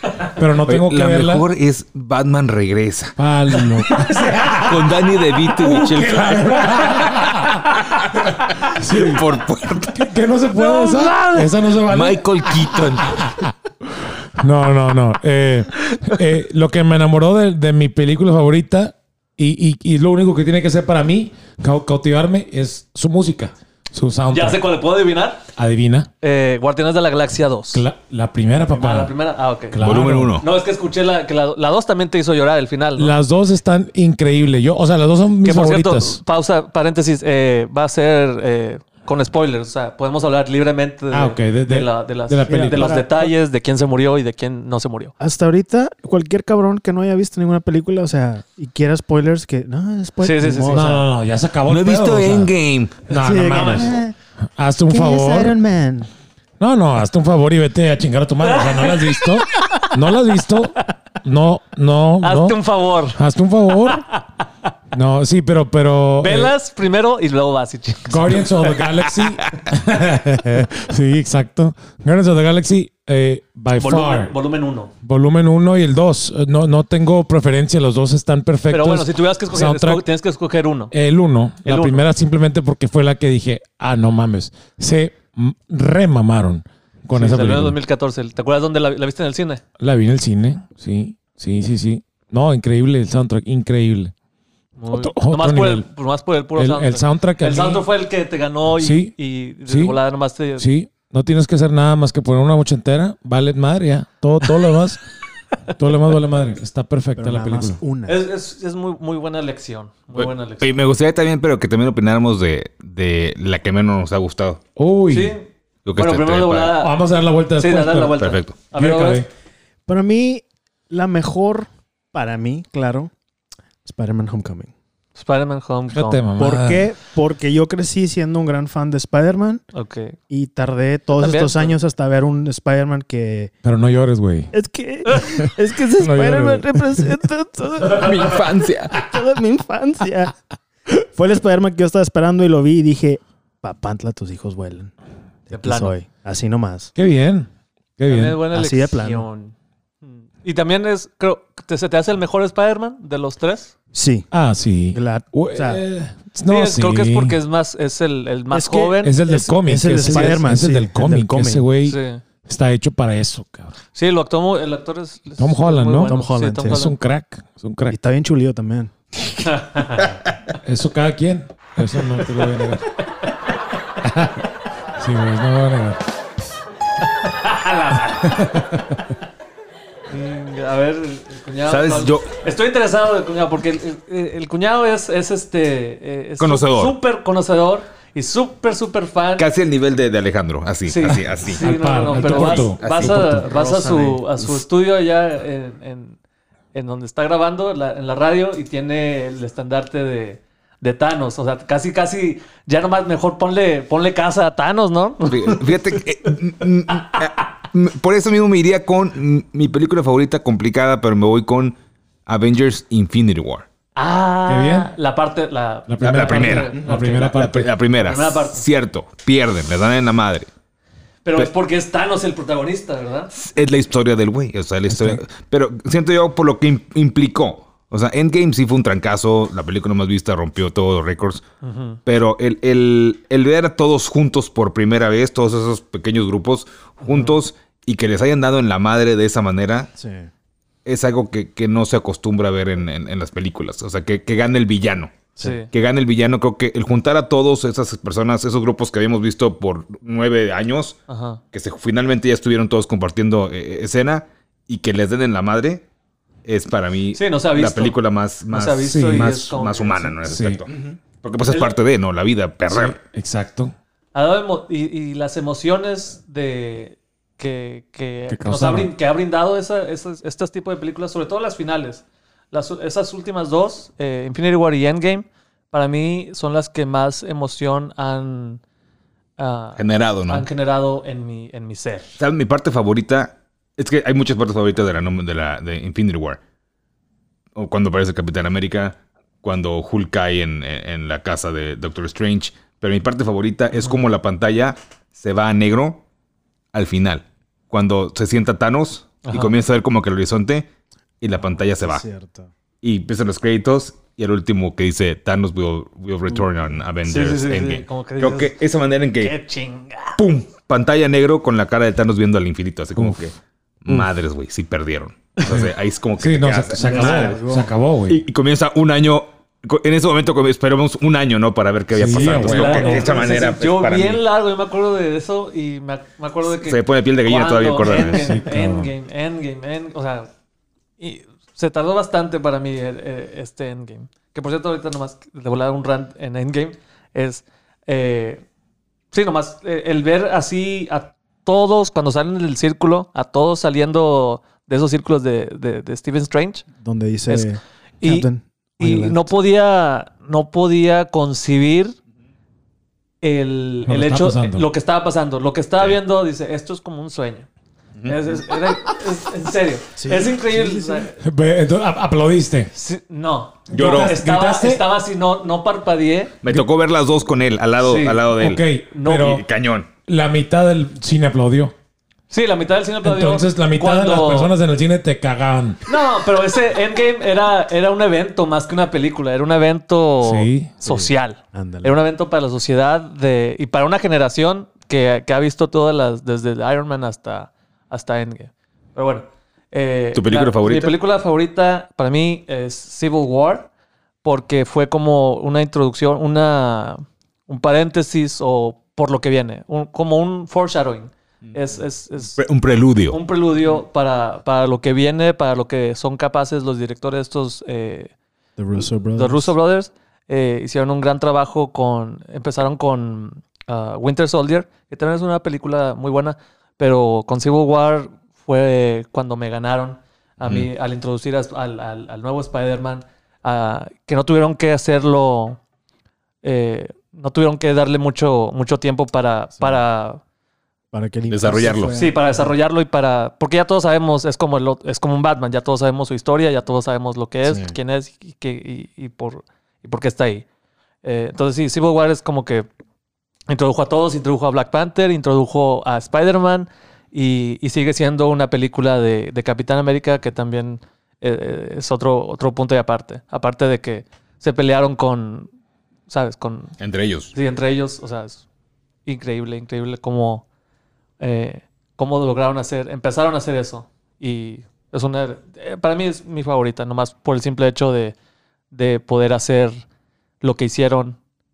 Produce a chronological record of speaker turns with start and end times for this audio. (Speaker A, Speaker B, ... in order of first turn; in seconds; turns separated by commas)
Speaker A: 0.3-1.4, Speaker B: 0.7-3.2, Speaker A: 3.2-5.0, Speaker C: 3.6-4.7, Speaker B: 4.5-7.1, Speaker A: 5.6-7.6, Speaker C: 6.6-7.3, Speaker B: 8.7-10.0, Speaker A: 8.7-9.3, Speaker A: 9.9-24.6, Speaker C: 10.6-11.6, Speaker B: 11.9-13.3, Speaker C: 24.3-25.4, Speaker A: 25.6-26.1, Speaker C: 26.2-27.8, Speaker A: 27.7-29.1, Speaker C: 28.8-33.1, Speaker A: 29.7-30.4, Speaker B: 29.8-30.4, Speaker A: 33.0-36.2, Speaker C: 35.4-45.1, Speaker A: 41.1-43.1, Speaker D: 42.5-43.2, Speaker D: 45.2-51.1, Speaker C: 50.2-51.0, Speaker A: 50.7-52.5, Speaker B: 51.7-53.0, Speaker A: 53.1-54.0, Speaker D: 53.1-54.1, Speaker C: 53.5-54.0, Speaker A: 54.6-55.6, Speaker D: 54.9-56.1, Speaker A: 56.6-62.6, Speaker C: 58.5-59.9, Speaker C: 62.2-63.2, Speaker A: 63.1-64.1, Speaker C: 63.8-64.2, Speaker A: 64.9-66.5, Speaker C: 66.2-68.9, Speaker A: 68.1-74.3, Speaker C: 73.8-74.9, Speaker A: 75.0-80.0, Speaker C: 78.7-80.9, Speaker A: 80.9-87.8, Speaker C: 81.7-82.0, Speaker C: 87.1-89.6, Speaker A: 89.8-94.1, Speaker C: 94.8-100.7, Speaker A: 94.9-95.9, Speaker A: 96.6-97.8, Speaker A: 98.8-99.2, Speaker A: 99.7-100.0, Speaker A: 100.6-105.0, Speaker A: 105.8-107.8, Speaker D: 107.2-108.2, Speaker C: 108.1-110.7, Speaker B: 110.2-114.6, Speaker A: 114.8-115.3, Speaker C: 115.1-117.0, Speaker B: 115.8-116.8, Speaker A: 116.8-119.3, Speaker C: 117.6-119.2, Speaker B: 118.2-118.6, Speaker D: 119.9-123.1, Speaker D: 123.8-124.7, Speaker C: 125.2-126.2, Speaker A: 125.9-126.9, Speaker D: 126.4-129.6, Speaker C: 129.7-130.2, Speaker D: 130.3-133.5, Speaker C: 131.2-131.8, Speaker A: 133.6-134.5, Speaker D: 134.5-144.9, Speaker A: 136.0-137.1, Speaker B: 137.9-139.0, Speaker D: 145.5-146.9, Speaker C: 145.5-145.9, Speaker A: 147.0-148.4, Speaker C: 148.1-153.7, Speaker D: 148.5-149.2, Speaker D: 153.9-154.3, Speaker A: 154.3-157.4, Speaker D: 154.9-155.8, Speaker C: 156.5-159.2, Speaker D: 158.5-161.6, Speaker A: 159.0-163.7, Speaker C: 159.9-160.4, Speaker C: 161.8-162.2, Speaker C: 163.9-167.0, Speaker A: 165.4-168.0, Speaker D: 166.0-166.9, Speaker D: 167.9-168.9, Speaker C: 169.4-170.1, Speaker A: 170.6-172.9, Speaker C: 172.2-172.5, Speaker A: 174.0-176.0, Speaker C: 177.2-178.4, Speaker A: 178.2-179.0, Speaker C: 180.1-189.5, Speaker B: 181.7-182.3, Speaker B: 186.4-187.0, Speaker B: 189.4-193.2, Speaker C: 190.9-196.2, Speaker A: 191.5-193.9, Speaker D: 193.5-194.2, Speaker C: 196.7-205.9, Speaker B: 205.3-211.8, Speaker B: 212.3-213.7, Speaker C: 214.0-217.3, Speaker A: 214.5-214.9, Speaker A: 215.9-217.7, Speaker B: 216.0-220.5, Speaker C: 218.0-218.7, Speaker C: 221.2-223.3, Speaker B: 223.3-231.4, Speaker A: 224.9-225.2, Speaker C: 231.6-232.0, Speaker B: 232.1-239.9, Speaker D: 240.0-240.3, Speaker B: 240.8-245.2, Speaker C: 245.4-245.7, Speaker B: 245.7-251.0, Speaker C: 251.1-251.4, Speaker B: 251.5-255.8, Speaker B: 256.4-263.0, Speaker C: 257.1-258.0, Speaker C: 258.5-260.2, Speaker A: 258.9-259.5, Speaker A: 260.2-260.6, Speaker C: 261.5-261.7, Speaker A: 262.7-263.8, Speaker C: 264.1-278.6, Speaker A: 268.3-268.9, Speaker C: 279.4-282.2, Speaker B: 279.8-280.5, Speaker B: 282.2-286.4, Speaker B: 287.6-296.0, Speaker B: 296.7-300.7, Speaker C: 299.2-299.6, Speaker B: 301.2-302.0, Speaker D: 301.8-302.5, Speaker B: 302.8-309.3, Speaker C: 307.0-308.6, Speaker C: 309.2-310.2, Speaker B: 310.2-313.3, Speaker B: 313.8-317.4, Speaker A: 315.5-318.2, Speaker D: 316.7-317.7, Speaker B: 318.1-324.2, Speaker A: 321.9-323.1, Speaker D: 322.1-323.3, Speaker C: 322.2-330.3, Speaker B: 326.6-328.4, Speaker A: 327.8-328.9, Speaker C: 331.0-338.4, Speaker C: 339.1-346.7, Speaker D: 346.8-349.3, Speaker C: 348.0-348.3, Speaker C: 348.8-352.0, Speaker C: 353.2-357.5, Speaker A: 353.9-354.7, Speaker B: 358.0-358.3, Speaker C: 358.1-361.2, Speaker D: 360.0-361.1, Speaker A: 361.2-362.7, Speaker C: 362.7-366.3, Speaker A: 363.7-364.8, Speaker B: 363.7-364.2, Speaker B: 366.4-369.9, Speaker C: 367.8-368.3, Speaker A: 368.4-369.4, Speaker C: 368.9-369.4, Speaker A: 370.1-371.7, Speaker C: 372.3-374.5, Speaker A: 373.0-375.8, Speaker C: 375.9-393.7, Speaker A: 380.2-380.7, Speaker D: 380.8-381.9, Speaker B: 390.1-391.0, Speaker C: 394.2-402.4, Speaker B: 402.4-403.2, Speaker C: 403.1-408.1, Speaker D: 408.6-409.5, Speaker C: 409.1-425.6, Speaker B: 420.4-420.7, Speaker C: 426.4-430.2, Speaker D: 430.9-432.5, Speaker B: 431.3-431.9, Speaker C: 431.9-440.5, Speaker D: 437.4-437.8, Speaker C: 441.0-442.7, Speaker C: 443.5-455.5, Speaker C: 456.1-456.8, Speaker B: 456.8-457.3, Speaker C: 457.3-458.4, Speaker C: 459.1-460.4, Speaker C: 461.2-468.1, Speaker C: 468.7-469.8, Speaker C: 470.4-471.2